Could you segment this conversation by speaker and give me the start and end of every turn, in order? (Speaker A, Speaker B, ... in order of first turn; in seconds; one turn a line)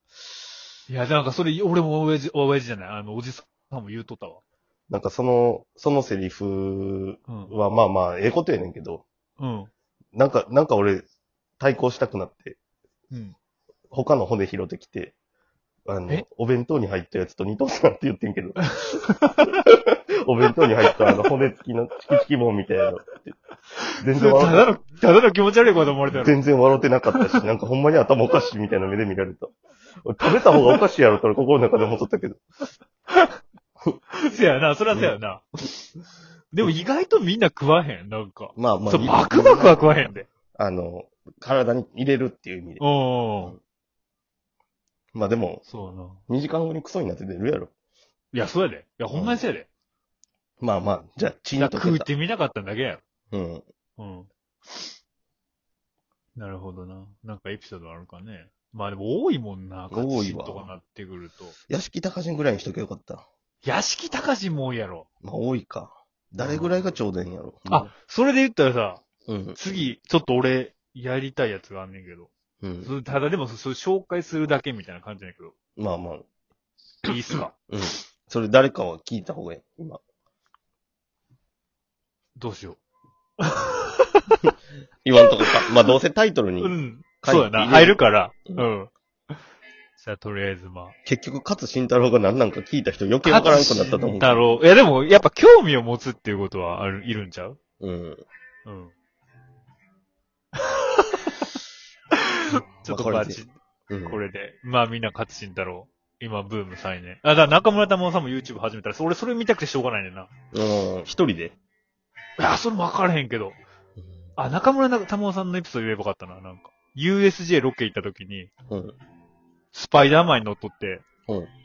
Speaker A: 0.9-4.4
Speaker B: 4.9-9.0
Speaker A: 7.3-7.5
Speaker A: 9.4-9.7
Speaker B: 10.1-11.1
Speaker B: 11.6-12.6
Speaker A: 13.1-13.3
Speaker B: 13.9-15.2
Speaker B: 15.9-18.8
Speaker A: 18.8-19.6
Speaker B: 19.6-23.3
Speaker A: 23.8-26.4
Speaker B: 24.0-24.7
Speaker B: 26.1-32.4
Speaker A: 34.2-35.7
Speaker A: 36.5-40.3
Speaker B: 38.5-42.8
Speaker A: 42.8-43.5
Speaker B: 45.1-45.6
Speaker A: 45.6-46.2
Speaker B: 46.3-47.7
Speaker A: 48.3-49.7
Speaker B: 49.1-49.4
Speaker B: 50.6-52.1
Speaker A: 51.6-53.0
Speaker B: 53.3-53.6
Speaker A: 54.0-54.9
Speaker A: 56.4-61.5
Speaker B: 59.9-60.7
Speaker B: 61.7-63.2
Speaker A: 63.6-65.1
Speaker B: 65.2-67.9
Speaker A: 66.4-66.8
Speaker A: 67.7-69.0
Speaker B: 69.3-69.6
Speaker A: 69.6-72.3
Speaker B: 72.6-72.9
Speaker A: 72.8-75.5
Speaker B: 75.8-76.2
Speaker A: 77.0-77.5
Speaker B: 77.7-80.0
Speaker A: 82.3-82.8
Speaker A: 83.4-84.4
Speaker B: 85.0-88.7
Speaker A: 86.6-89.4
Speaker A: 90.0-90.9
Speaker B: 91.0-94.5
Speaker A: 93.2-97.6
Speaker B: 97.8-98.2
Speaker A: 98.7-98.9
Speaker A: 100.6-101.6
Speaker A: 102.1-103.5
Speaker B: 102.8-104.2
Speaker A: 104.0-110.3
Speaker B: 110.5-111.5
Speaker A: 112.4-113.6
Speaker A: 114.4-118.5
Speaker B: 118.7-119.0
Speaker A: 119.7-121.0